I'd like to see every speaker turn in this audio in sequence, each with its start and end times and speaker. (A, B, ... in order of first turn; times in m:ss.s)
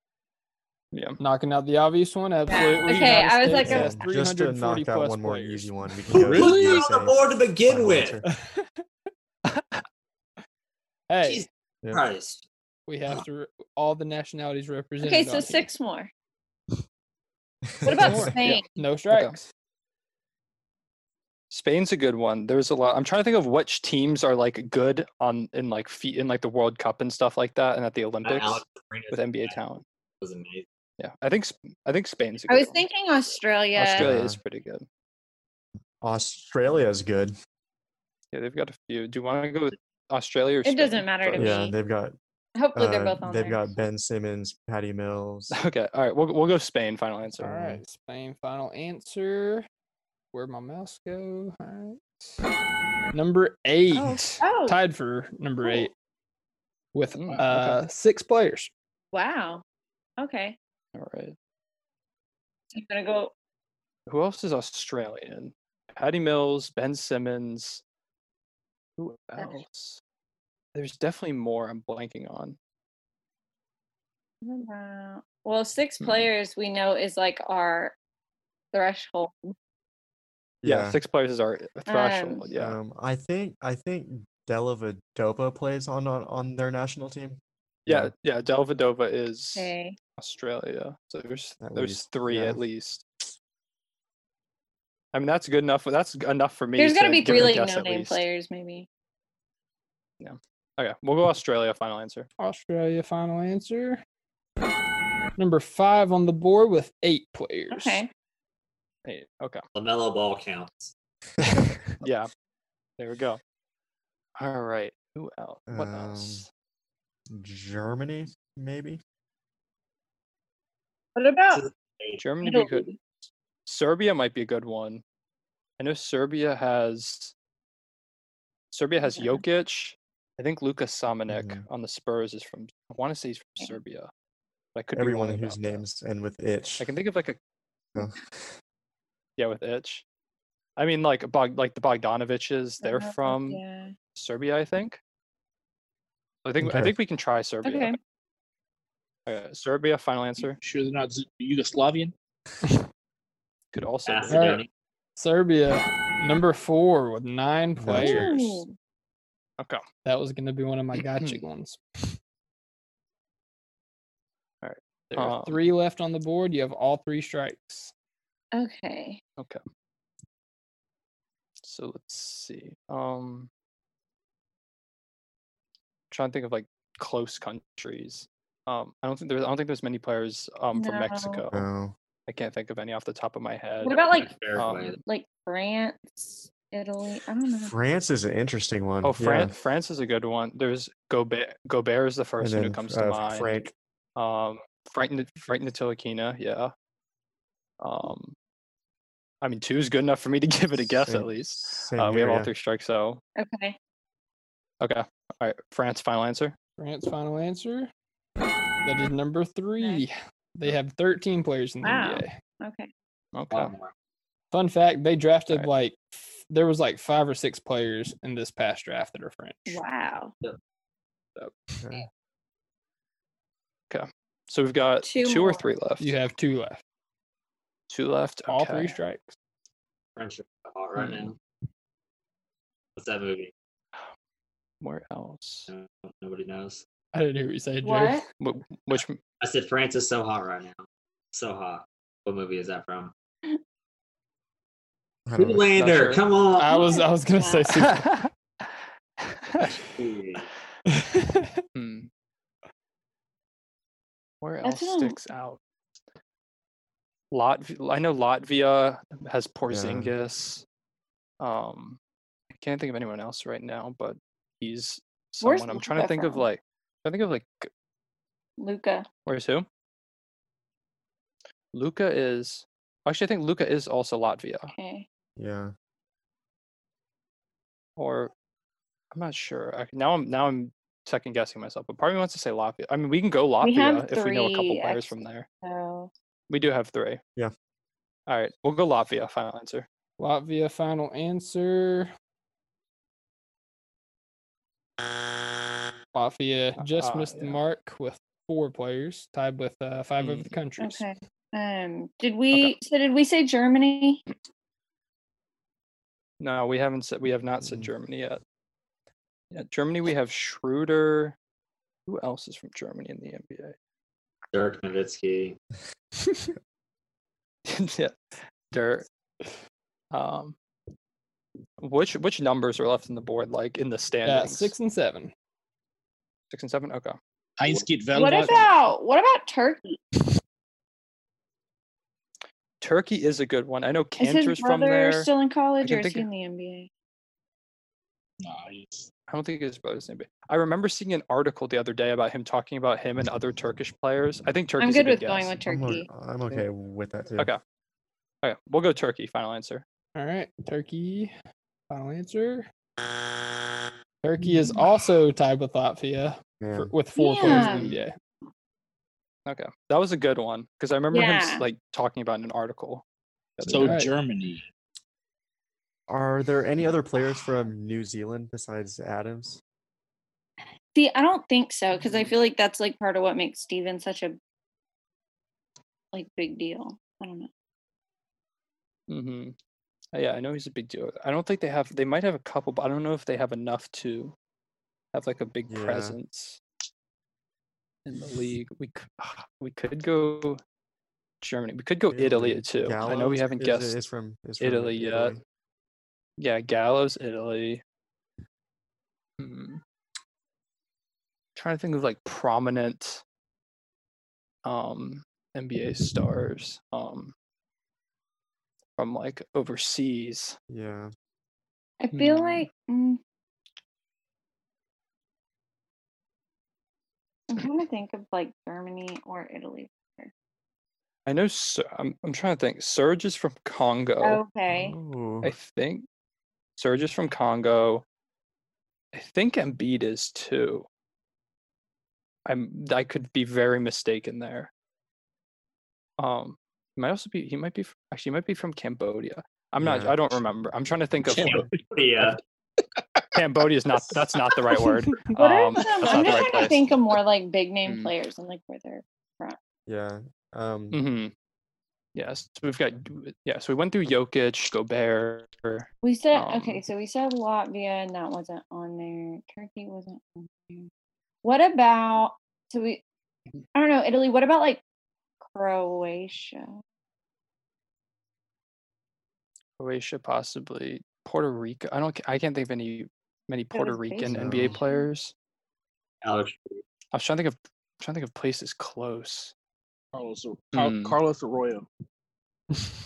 0:00.9-0:01.2 A
0:01.2-0:05.7 B
0:02.5-0:04.0 C
0:03.5-0:08.3 D
0:06.3-0:06.9 E
0:06.3-0:08.2 F
0:08.4-0:08.7 B
0:09.5-0:09.8 A
0:11.1-0:11.5 B
0:11.2-0:12.4 F
0:12.9-0:15.7 B
0:15.0-0:16.1 C
0:17.8-0:18.4 D
0:17.8-0:18.6 C
0:18.0-0:19.5 B
0:18.3-0:19.4 A
0:21.5-0:29.8 A
0:28.2-0:29.6 F
0:30.2-0:30.7 F
0:31.0-0:32.8 A
0:32.5-0:34.1 C
0:33.8-0:34.8 A
0:34.0-0:34.4 D
0:36.0-0:37.3 D
0:38.3-0:41.6 A
0:40.6-0:41.8 C
0:41.4-0:42.2 D
0:42.6-0:43.7 C
0:42.8-0:45.5 D
0:45.5-0:47.8 A
0:47.4-0:49.7 B
0:50.3-0:52.4 B
0:53.1-0:55.9 B
0:53.9-0:54.8 C
0:56.9-0:58.7 B
0:57.2-0:57.8 A
0:59.1-0:59.6 C
1:00.2-1:00.6 C
1:01.0-1:01.4 A
1:02.7-1:03.3 C
1:04.1-1:07.8 A
1:09.0-1:10.0 A
1:10.8-1:12.6 A
1:14.4-1:18.0 C
1:16.0-1:16.3 A
1:18.7-1:19.5 C
1:20.6-1:21.0 D
1:20.6-1:22.8 A
1:21.9-1:22.5 C
1:22.5-1:28.1 D
1:27.9-1:33.1 A
1:29.6-1:30.0 C
1:31.6-1:32.6 D
1:35.1-1:38.2 A
1:36.8-1:38.9 C
1:40.2-1:42.3 A
1:42.4-1:44.0 B
1:45.4-1:48.0 B
1:47.7-1:48.1 C
1:49.0-1:49.6 A
1:49.8-1:50.9 F
1:52.0-1:52.3 A
1:53.0-1:53.4 A
1:54.4-1:56.5 A
1:55.7-1:56.4 D
1:57.3-1:59.0 D
2:01.2-2:01.6 C
2:01.5-2:02.2 F
2:02.2-2:02.9 A
2:02.4-2:03.0 C
2:03.7-2:05.0 A
2:05.8-2:07.3 A
2:08.7-2:14.1 A
2:09.0-2:09.4 C
2:11.3-2:11.6 D
2:14.8-2:15.8 A
2:15.0-2:16.9 D
2:16.8-2:17.4 A
2:18.0-2:18.6 D
2:19.4-2:20.0 A
2:20.8-2:23.6 A
2:22.8-2:24.0 C
2:24.2-2:25.0 A
2:26.4-2:28.0 A
2:26.6-2:26.9 D
2:27.6-2:28.0 C
2:29.3-2:30.6 A
2:30.6-2:32.1 E
2:33.7-2:34.6 A
2:34.1-2:34.7 F
2:34.3-2:34.6 B
2:35.2-2:38.6 B
2:37.8-2:38.3 D
2:38.0-2:38.7 C
2:40.0-2:42.2 B
2:41.0-2:41.4 A
2:44.6-2:45.6 A
2:45.1-2:47.9 B
2:48.5-2:49.2 C
2:51.6-2:53.5 A
2:56.1-3:01.7 A
3:00.8-3:01.4 C
3:01.5-3:01.9 D
3:02.3-3:04.0 A
3:03.8-3:04.4 C
3:04.1-3:05.0 F
3:04.5-3:05.0 A
3:05.0-3:07.7 C
3:07.6-3:09.5 D
3:09.0-3:16.7 A
3:12.4-3:13.7 D
3:17.8-3:18.4 A
3:19.4-3:23.2 A
3:21.0-3:22.5 D
3:23.4-3:23.8 C
3:24.8-3:26.6 A
3:26.8-3:27.9 B
3:28.8-3:32.4 B
3:31.8-3:32.9 C
3:33.3-3:33.7 A
3:33.5-3:33.9 F
3:34.5-3:39.8 B
3:39.7-3:40.3 C
3:41.4-3:41.8 B
3:41.8-3:42.1 D
3:43.9-3:46.1 A
3:45.0-3:45.7 C
3:46.0-3:46.8 B
3:47.9-3:49.0 A
3:48.5-3:49.4 B
3:50.2-3:51.4 F
3:51.0-3:51.3 A
3:53.0-3:53.5 F
3:54.8-3:55.7 A
3:55.7-3:56.8 F
3:57.1-3:58.2 B
3:57.8-3:58.3 C
3:58.4-3:59.2 A
3:59.4-4:03.1 F
4:05.3-4:05.6 D
4:05.4-4:06.8 F
4:05.8-4:06.2 A
4:06.6-4:08.1 B
4:06.7-4:07.7 C
4:07.8-4:08.7 A
4:09.2-4:09.7 A
4:09.8-4:10.5 F
4:11.1-4:11.5 B
4:11.8-4:12.1 A
4:14.4-4:15.6 A
4:14.6-4:15.2 C
4:17.3-4:20.6 A
4:19.7-4:20.1 D
4:21.4-4:22.0 A
4:22.5-4:27.7 A
4:25.4-4:26.5 C
4:28.6-4:29.1 C
4:29.3-4:29.7 A
4:31.7-4:34.7 A
4:34.7-4:35.1 C
4:35.4-4:35.7 D
4:38.0-4:38.3 A
4:39.1-4:45.5 A
4:43.6-4:46.1 C
4:46.5-4:47.2 A
4:48.3-4:49.9 A
4:50.2-4:52.1 B
4:56.1-5:01.0 B
4:56.8-4:57.6 A
5:00.2-5:00.5 A
5:00.8-5:04.2 C
5:06.4-5:08.4 A
5:07.6-5:07.9 D
5:09.5-5:11.4 A
5:12.1-5:13.8 A
5:14.5-5:15.6 F
5:17.7-5:19.1 A
5:20.1-5:20.6 A
5:21.8-5:24.7 A
5:24.2-5:25.3 B
5:26.5-5:27.2 A
5:27.6-5:28.7 E
5:28.1-5:30.0 C
5:32.8-5:35.3 A
5:34.2-5:36.9 C
5:35.8-5:36.3 A
5:38.4-5:39.1 E
5:39.3-5:45.6 A
5:44.8-5:46.1 C
5:45.7-5:47.5 D
5:48.4-5:49.8 A
5:50.2-5:51.3 B
5:51.9-5:52.7 B
5:54.2-5:58.2 B
5:56.6-5:56.9 D
5:57.2-5:57.9 C
5:57.4-5:57.9 A
5:59.5-6:03.0 A
6:01.1-6:01.7 C
6:03.6-6:04.1 A
6:03.7-6:04.1 B
6:03.7-6:04.6 E
6:06.1-6:09.6 D
6:10.9-6:14.4 C
6:16.1-6:17.5 C
6:19.1-6:19.6 A
6:20.1-6:24.4 A
6:25.1-6:26.6 A
6:25.7-6:26.2 D
6:28.0-6:30.6 A
6:31.4-6:34.0 A
6:32.1-6:35.4 D
6:34.6-6:35.4 A
6:36.4-6:37.8 A
6:39.4-6:39.8 A
6:41.6-6:43.2 A
6:44.6-6:47.3 A
6:49.0-6:50.6 A
6:50.7-6:51.1 D
6:52.0-6:53.2 C
6:52.1-6:52.7 A
6:57.5-7:00.3 C
7:01.3-7:04.4 A
7:04.2-7:04.9 C
7:04.7-7:05.5 D
7:05.4-7:06.1 A
7:06.8-7:08.0 A
7:09.1-7:10.9 A
7:12.5-7:14.7 A
7:16.2-7:21.7 A
7:19.8-7:20.4 D
7:21.3-7:21.8 E
7:21.3-7:22.4 F
7:23.4-7:26.9 A
7:24.2-7:24.9 E
7:25.4-7:29.6 C
7:27.8-7:28.1 A
7:29.9-7:31.0 D
7:30.9-7:31.3 A
7:32.2-7:36.8 A
7:36.0-7:40.9 C
7:41.4-7:43.0 C
7:43.7-7:44.8 C
7:45.4-7:46.8 C
7:49.8-7:55.3 A
7:53.7-7:55.1 C
7:54.3-7:54.8 D
7:56.2-7:56.8 F
7:57.1-7:59.5 A
8:00.1-8:01.9 E
8:00.7-8:01.2 A